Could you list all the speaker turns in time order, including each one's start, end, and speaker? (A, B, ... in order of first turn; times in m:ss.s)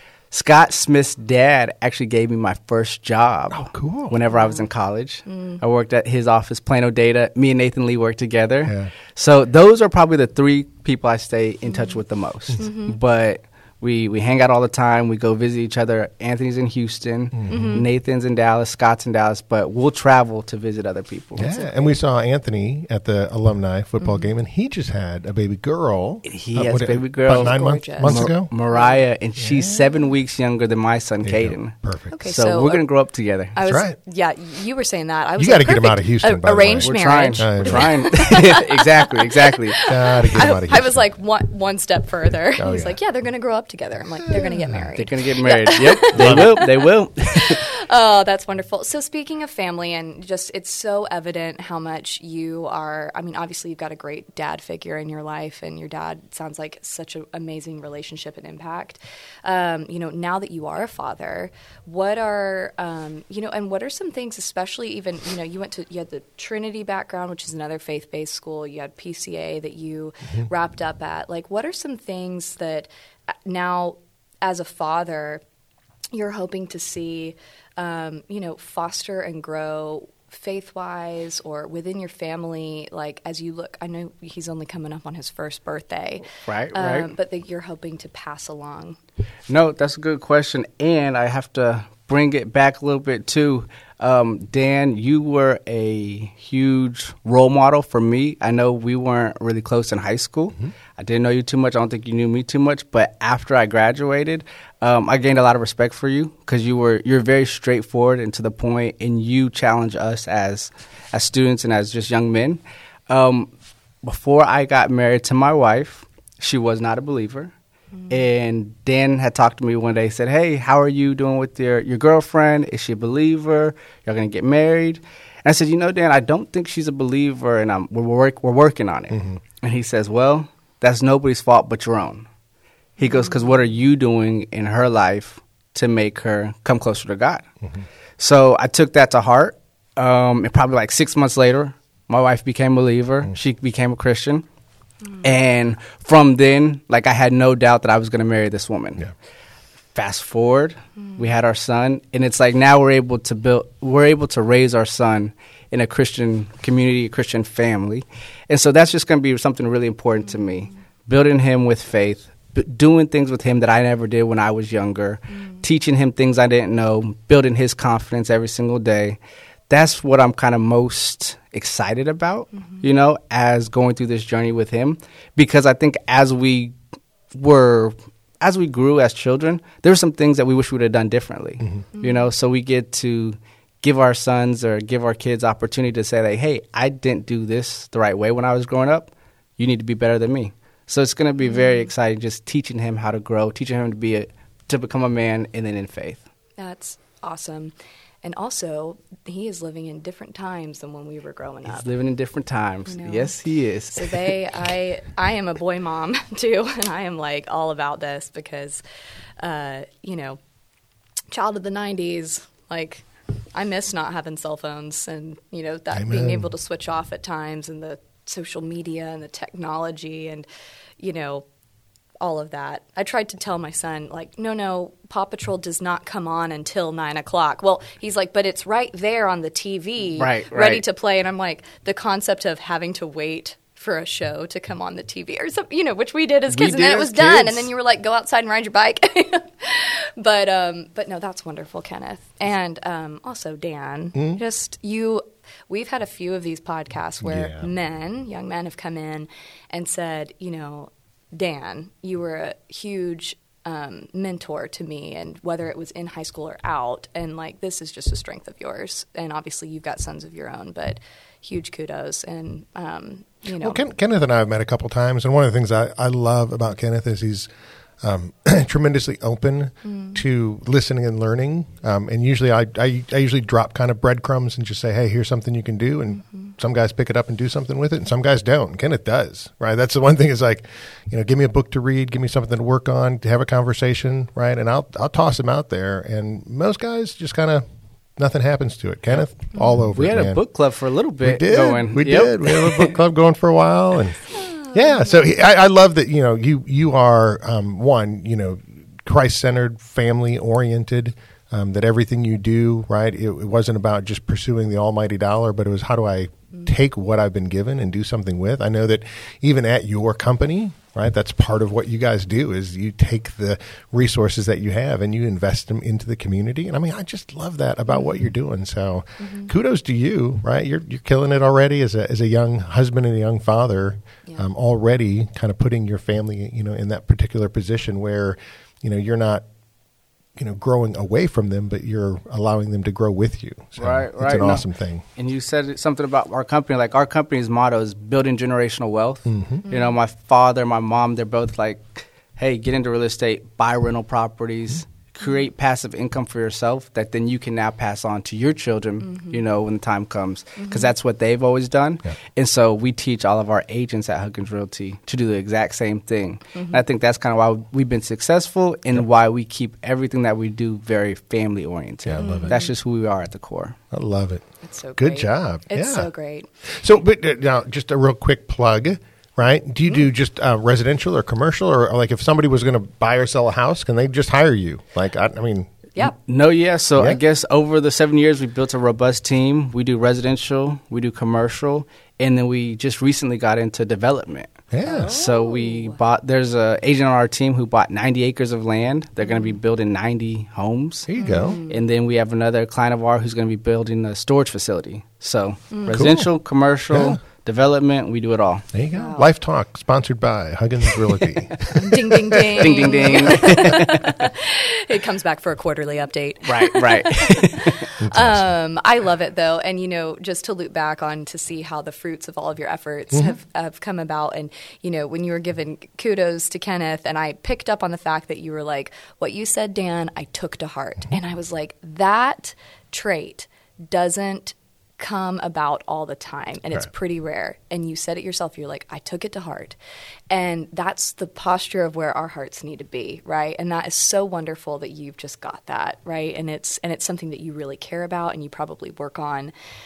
0:00.3-0:21.6 A
0:03.5-0:04.2 B
0:04.3-0:04.6 C
0:05.3-0:05.6 C
0:08.6-0:08.9 B
0:11.7-0:12.0 C
0:12.6-0:13.0 C
0:17.3-0:17.8 B
0:17.5-0:17.8 C
0:21.4-0:28.5 B
0:21.4-0:21.9 C
0:24.0-0:24.3 C
0:26.2-0:31.7 A
0:27.3-0:29.0 C
0:29.4-0:29.8 B
0:31.2-0:32.1 B
0:32.1-0:32.8 C
0:32.3-0:33.6 A
0:33.5-0:46.6 C
0:33.6-0:34.0 B
0:35.4-0:38.1 B
0:36.8-0:39.8 A
0:39.9-0:41.0 B
0:42.6-0:43.0 B
0:44.2-0:44.9 B
0:45.0-0:47.6 A
0:46.1-0:46.6 B
0:47.3-1:12.9 C
1:13.4-1:15.4 C
1:16.1-1:29.0 C
1:26.4-1:27.1 A
1:29.5-1:53.5 A
1:54.0-1:57.5 A
1:58.1-2:12.2 A
2:09.1-2:09.4 B
2:13.0-2:17.4 A
2:13.0-2:13.3 C
2:18.2-2:24.4 A
2:25.2-2:29.1 A
2:29.9-2:49.2 A
2:49.7-2:56.7 A
2:57.3-3:16.2 A
3:02.0-3:02.3 C
3:11.4-3:11.9 C
3:16.6-3:21.8 C
3:21.6-3:24.3 A
3:22.9-3:23.3 C
3:23.9-3:28.8 C
3:29.4-3:30.4 C
3:31.3-3:40.4 C
3:35.9-3:36.5 B
3:41.0-3:41.4 C
3:42.2-4:23.8 C
3:50.2-3:50.8 A
3:56.5-3:57.7 A
4:04.1-4:04.4 B
4:07.2-4:07.7 B
4:23.6-4:27.5 B
4:28.0-4:47.6 B
4:29.9-4:30.2 C
4:48.2-4:50.4 B
4:50.0-4:53.0 A
4:51.2-5:29.4 B
4:54.3-4:55.3 C
5:17.9-5:18.3 C
5:19.2-5:19.5 C
5:30.4-5:35.0 B
5:33.8-5:34.6 A
5:35.2-6:03.8 A
5:39.2-5:39.6 B
5:39.6-5:40.0 C
5:49.1-5:49.3 C
5:50.6-5:50.8 C
5:56.5-5:56.8 C
6:02.0-6:02.5 B
6:02.2-6:02.7 C
6:03.9-6:04.4 B
6:04.6-6:06.5 C
6:05.0-6:06.1 B
6:06.6-6:15.8 B
6:16.0-6:38.6 A
6:24.7-6:25.1 B
6:24.8-6:26.0 C
6:29.2-6:29.5 C
6:31.1-6:31.6 B
6:31.2-6:31.8 C
6:35.7-6:36.0 C
6:35.9-6:36.3 B
6:36.9-6:37.2 B
6:38.7-6:43.5 B
6:38.9-6:39.3 C
6:41.7-7:09.8 C
6:42.6-6:44.1 A
6:46.4-6:47.8 A
6:48.0-6:48.5 B
7:10.3-7:19.5 C